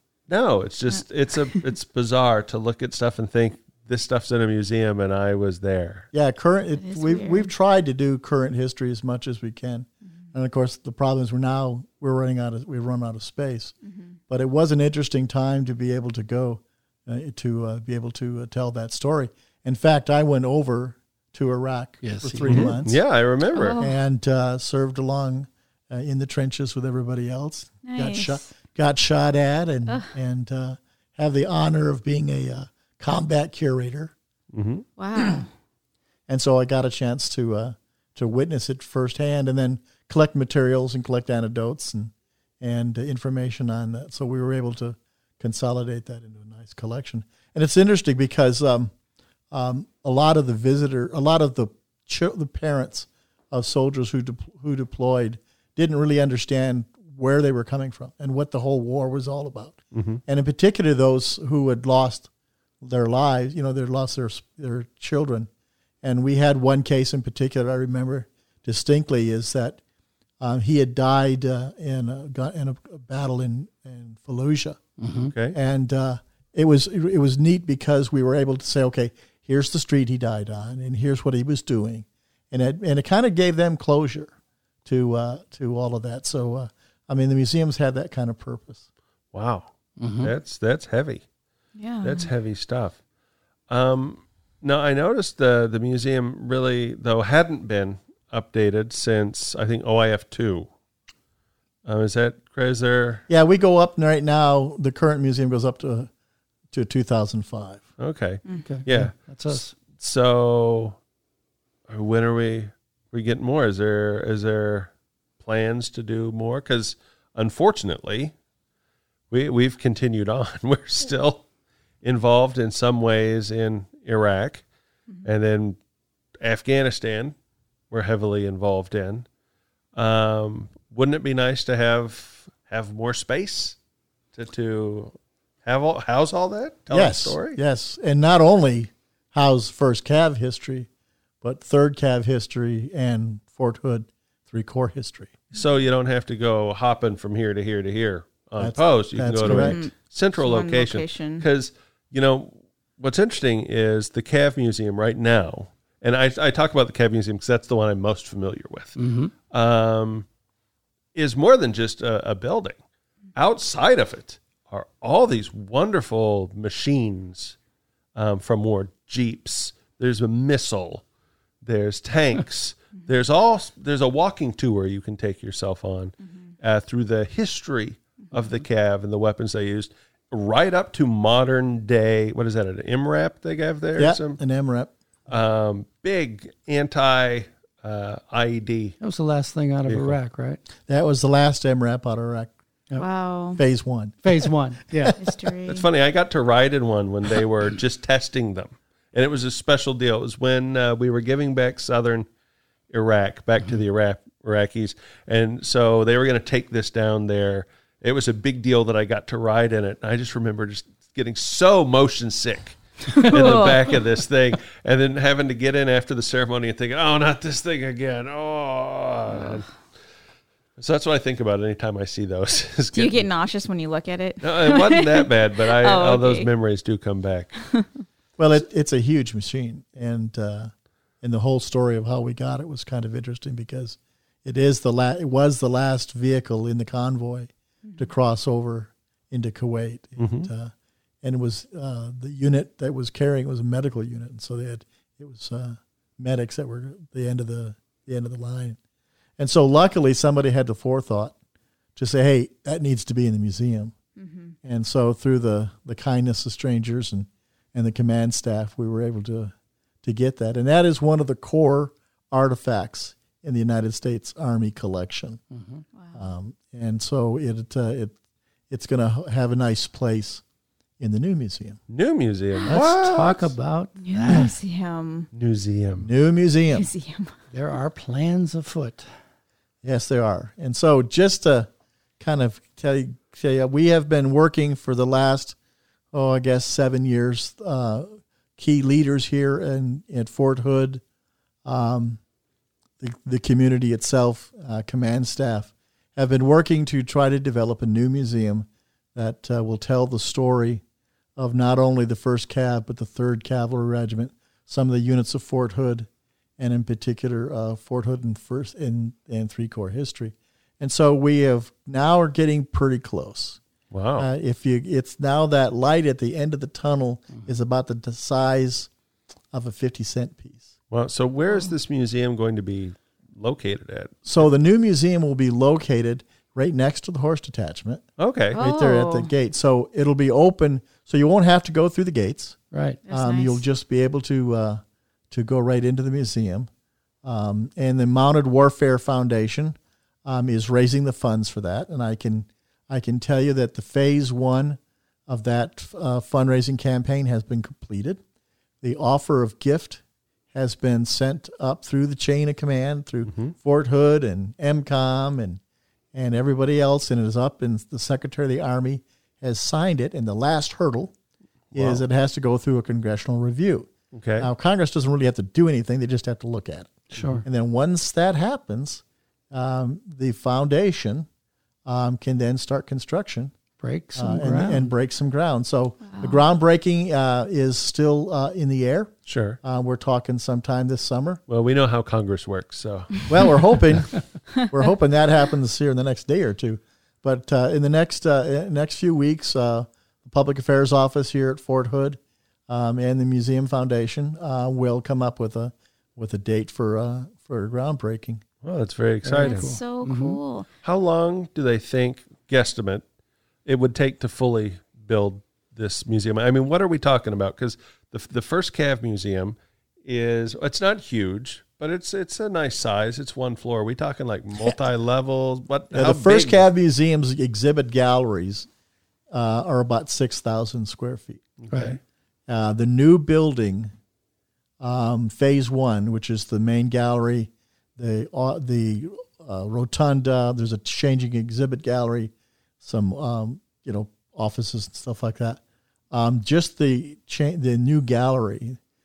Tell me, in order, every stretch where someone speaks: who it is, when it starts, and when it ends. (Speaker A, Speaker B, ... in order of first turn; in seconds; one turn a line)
Speaker A: 0.3-6.1
Speaker B: 6.1-13.8
Speaker C: 6.8-7.5
Speaker C: 13.9-14.1
Speaker B: 14.3-23.0
Speaker D: 22.0-22.8
Speaker A: 22.5-23.8
Speaker C: 23.6-24.0
Speaker B: 23.8-34.1
Speaker C: 27.9-28.5
Speaker A: 34.5-34.9
Speaker C: 35.0-35.5
Speaker B: 36.3-48.9
Speaker B: 49.5-62.3
Speaker A: 59.9-60.2
Speaker B: 62.8-65.5
Speaker B: 66.0-69.8
Speaker B: 70.4-74.8
Speaker D: 75.0-75.3
Speaker A: 75.3-75.6
Speaker B: 75.5-84.3
Speaker B: 84.8-88.8
Speaker A: 89.3-91.2
Speaker D: 90.0-90.3
Speaker C: 91.8-92.3
Speaker A: 92.0-93.0
Speaker A: 93.7-100.7
Speaker A: 101.8-103.2
Speaker B: 103.3-106.1
Speaker B: 106.7-107.9
Speaker A: 108.0-111.0
Speaker D: 108.6-109.7
Speaker A: 111.9-118.3
Speaker A: 119.3-121.4
Speaker A: 122.0-124.6
Speaker A: 125.2-125.8
Speaker A: 126.4-127.3
Speaker A: 127.9-129.3
Speaker A: 129.9-133.8
Speaker A: 134.3-135.1
Speaker A: 135.7-137.6
Speaker B: 136.9-140.9
Speaker B: 141.4-145.4
Speaker A: 145.5-159.0
Speaker B: 148.6-149.8
Speaker C: 149.5-151.4
Speaker D: 159.0-159.3
Speaker A: 159.5-160.3
Speaker A: 161.2-162.8
Speaker A: 163.4-167.6
Speaker A: 168.2-171.0
Speaker A: 171.6-184.4
Speaker C: 178.3-178.6
Speaker B: 183.9-184.9
Speaker A: 185.3-189.0
Speaker D: 189.0-190.6
Speaker A: 189.9-190.2
Speaker B: 190.9-192.5
Speaker C: 193.0-193.6
Speaker B: 193.6-195.5
Speaker D: 194.2-195.2
Speaker C: 195.2-195.9
Speaker A: 195.7-202.3
Speaker A: 202.9-219.7
Speaker C: 213.2-214.0
Speaker A: 220.8-223.3
Speaker C: 222.9-226.5
Speaker A: 224.4-227.5
Speaker B: 228.4-240.7
Speaker A: 240.2-240.5
Speaker B: 241.2-248.8
Speaker B: 249.4-251.3
Speaker B: 252.0-253.9
Speaker C: 254.2-254.5
Speaker B: 254.6-265.4
Speaker D: 265.5-265.8
Speaker C: 266.0-266.3
Speaker B: 266.1-268.1
Speaker B: 268.7-270.4
Speaker B: 271.0-271.8
Speaker A: 271.9-273.5
Speaker D: 272.7-274.5
Speaker C: 274.0-275.3
Speaker A: 275.3-276.1
Speaker B: 276.0-276.9
Speaker C: 276.7-277.3
Speaker D: 277.5-279.1
Speaker B: 279.8-281.7
Speaker B: 282.2-285.6
Speaker B: 286.1-291.0
Speaker B: 291.6-292.2
Speaker B: 293.0-300.8
Speaker B: 301.4-313.6
Speaker A: 313.9-314.3
Speaker B: 314.2-318.9
Speaker B: 319.5-320.7
Speaker A: 320.9-324.1
Speaker C: 321.5-321.7
Speaker B: 324.2-332.6
Speaker A: 328.2-328.6
Speaker C: 328.5-329.3
Speaker D: 332.7-333.0
Speaker C: 333.1-333.6
Speaker B: 333.1-336.7
Speaker B: 337.2-348.2
Speaker B: 348.8-350.0
Speaker B: 350.5-355.6
Speaker A: 353.3-353.5
Speaker B: 356.1-361.1
Speaker A: 361.7-362.0
Speaker B: 361.7-371.3
Speaker A: 364.1-364.5
Speaker D: 367.1-367.4
Speaker B: 371.9-373.5
Speaker D: 373.8-374.9
Speaker B: 374.1-381.4
Speaker C: 376.0-376.4
Speaker A: 379.3-379.6
Speaker A: 381.5-383.3
Speaker B: 383.3-398.4
Speaker A: 398.6-399.7
Speaker D: 399.2-400.4
Speaker C: 399.4-400.7
Speaker A: 400.8-403.0
Speaker A: 403.6-416.6
Speaker B: 415.9-418.7
Speaker B: 419.3-421.4
Speaker A: 421.6-422.0
Speaker D: 421.7-422.0
Speaker B: 422.5-423.9
Speaker B: 424.8-435.6
Speaker B: 436.1-438.8